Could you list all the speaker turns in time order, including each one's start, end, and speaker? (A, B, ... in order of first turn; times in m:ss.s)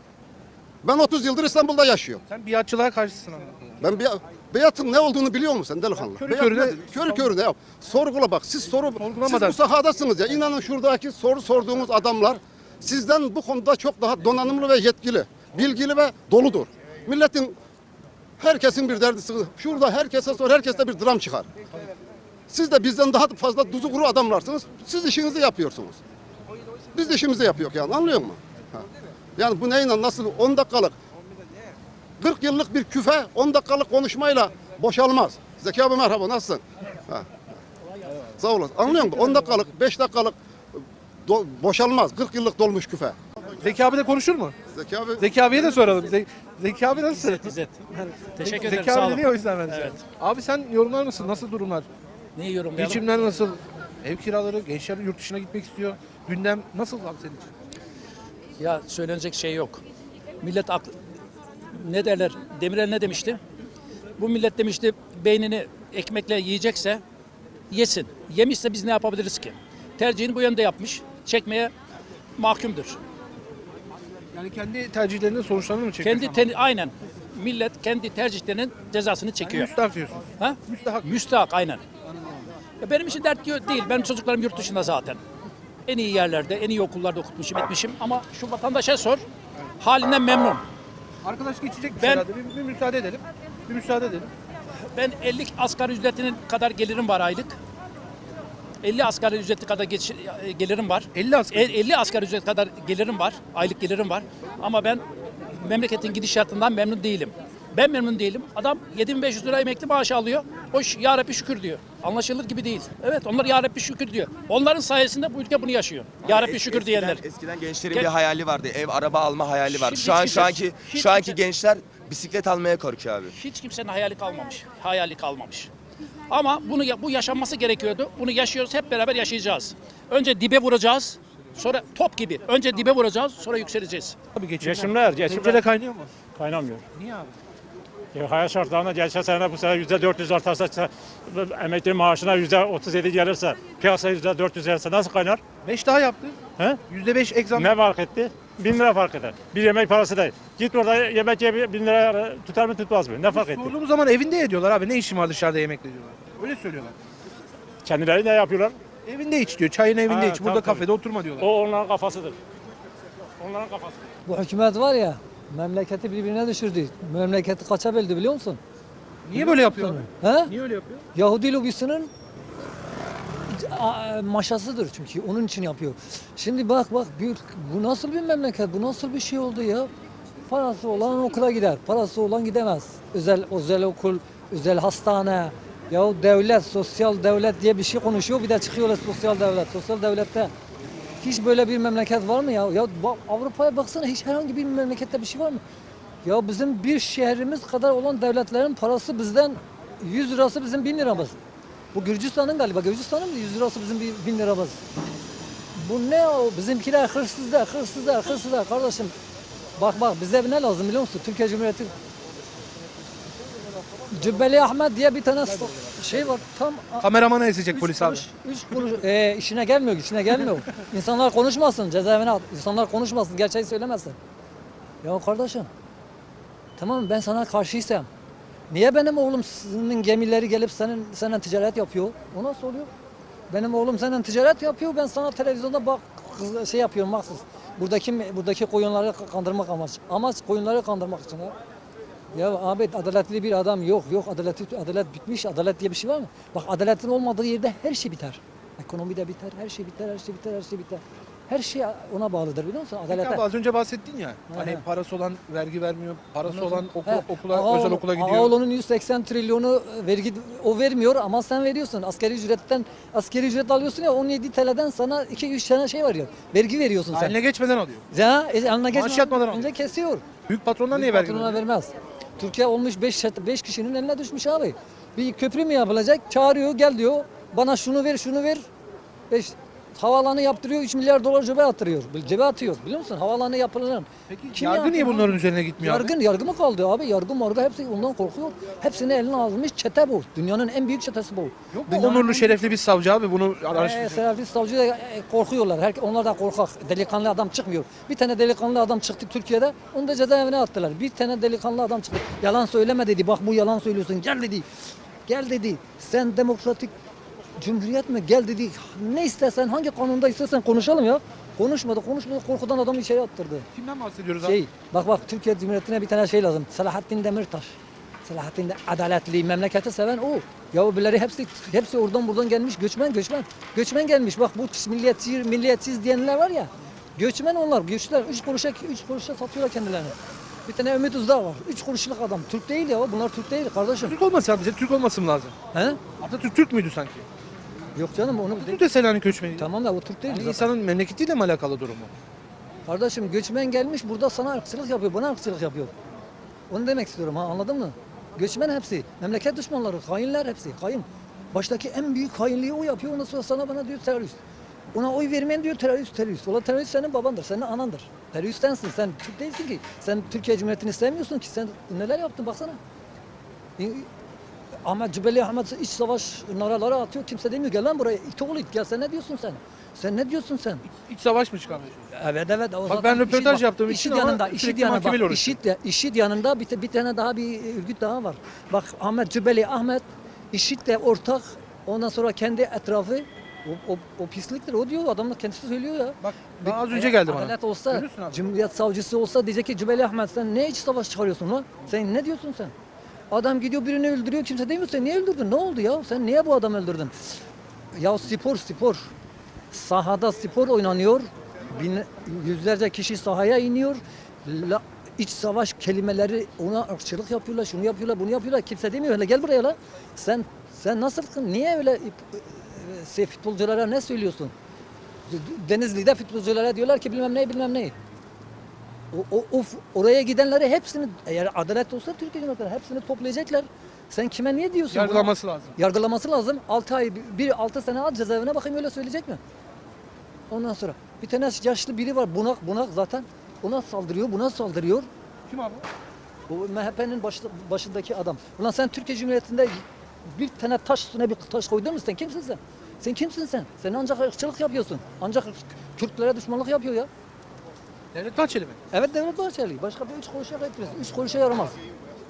0:00.8-0:02.2 A
0:02.3-0:03.8 B
0:03.8-0:17.6 A
0:06.1-0:07.2 B
0:09.0-0:09.6 B
0:18.4-0:21.5 A
0:22.5-0:26.0 A
0:26.9-0:28.9 A
0:29.4-0:31.0 A
0:32.2-0:37.3 A
0:38.4-0:43.2 A
0:43.6-0:44.6 B
0:44.7-0:45.3 A
0:45.2-0:47.5 B
0:47.1-0:50.0 C
0:48.4-0:51.9 B
0:52.4-0:53.1 C
0:52.8-0:57.5 B
0:58.6-0:59.8 C
1:00.4-1:01.0 C
1:01.7-1:03.4 C
1:04.2-1:07.0 C
1:07.7-1:11.7 C
1:12.4-1:13.0 C
1:14.3-1:16.5 B
1:16.0-1:19.7 C
1:19.4-1:21.1 B
1:20.4-1:21.8 C
1:22.8-1:25.2 C
1:25.9-1:29.2 C
1:29.8-1:30.6 C
1:31.2-1:34.3 B
1:32.0-1:32.3 C
1:34.9-1:37.6 C
1:38.8-1:45.0 C
1:41.1-1:41.8 B
1:45.6-1:57.2 C
1:56.2-2:03.4 D
1:59.7-2:01.4 C
2:03.3-2:05.7 C
2:06.3-2:14.2 C
2:14.4-2:16.1 B
2:14.6-2:15.6 E
2:16.4-2:16.8 E
2:16.9-2:17.4 B
2:18.1-2:25.4 E
2:25.6-2:27.7 B
2:27.6-2:33.7 E
2:33.2-2:37.0 B
2:37.8-2:38.8 E
2:39.1-2:41.5 B
2:40.1-2:40.9 E
2:41.4-2:42.4 E
2:43.4-2:44.1 E
2:44.3-2:48.6 F
2:49.2-2:51.1 B
2:49.4-2:50.5 F
2:51.2-2:52.1 F
2:53.5-2:59.9 F
3:00.5-3:10.5 F
3:11.2-3:15.6 F
3:16.2-3:21.4 F
3:21.9-3:24.8 F
3:25.8-3:29.1 F
3:29.8-3:31.9 F
3:34.1-3:37.1 F
3:35.5-3:35.8 B
3:37.0-3:38.3 B
3:37.7-3:44.2 F
3:45.0-3:45.7 F
3:46.8-3:48.1 F
3:48.7-3:52.9 F
3:53.5-4:01.5 F
4:02.3-4:13.4 F
4:13.1-4:18.6 B
4:14.5-4:14.8 F
4:16.5-4:27.4 F
4:27.1-4:28.1 B
4:28.1-4:30.2 F
4:28.9-4:29.7 B
4:30.4-4:31.6 B
4:30.9-4:38.7 F
4:39.3-4:52.6 F
4:44.3-4:46.2 B
4:51.7-4:54.2 B
4:53.7-5:04.7 F
5:05.3-5:06.9 F
5:07.6-5:13.7 F
5:13.7-5:14.6 B
5:14.4-5:30.2 F
5:30.7-5:34.2 F
5:34.0-5:35.6 B
5:35.7-5:36.0 F
5:36.2-5:37.3 B
5:38.0-5:38.8 F
5:38.5-5:39.7 B
5:39.6-5:40.7 F
5:40.3-5:42.1 B
5:42.9-5:45.9 F
5:46.7-5:54.4 F
5:54.9-6:02.8 F
6:03.8-6:04.1 F
6:04.8-6:10.8 F
6:10.9-6:12.1 B
6:12.1-6:32.7 F
6:12.9-6:15.6 B
6:26.2-6:28.4 B
6:33.3-6:37.4 F
6:37.9-6:39.1 F
6:39.7-6:54.5 F
6:55.3-6:58.0 F
6:59.1-7:09.4 F
7:04.9-7:05.8 B
7:10.5-7:15.1 F
7:15.5-7:15.8 B
7:16.5-7:27.1 F
7:28.1-7:28.8 B
7:28.9-7:31.8 F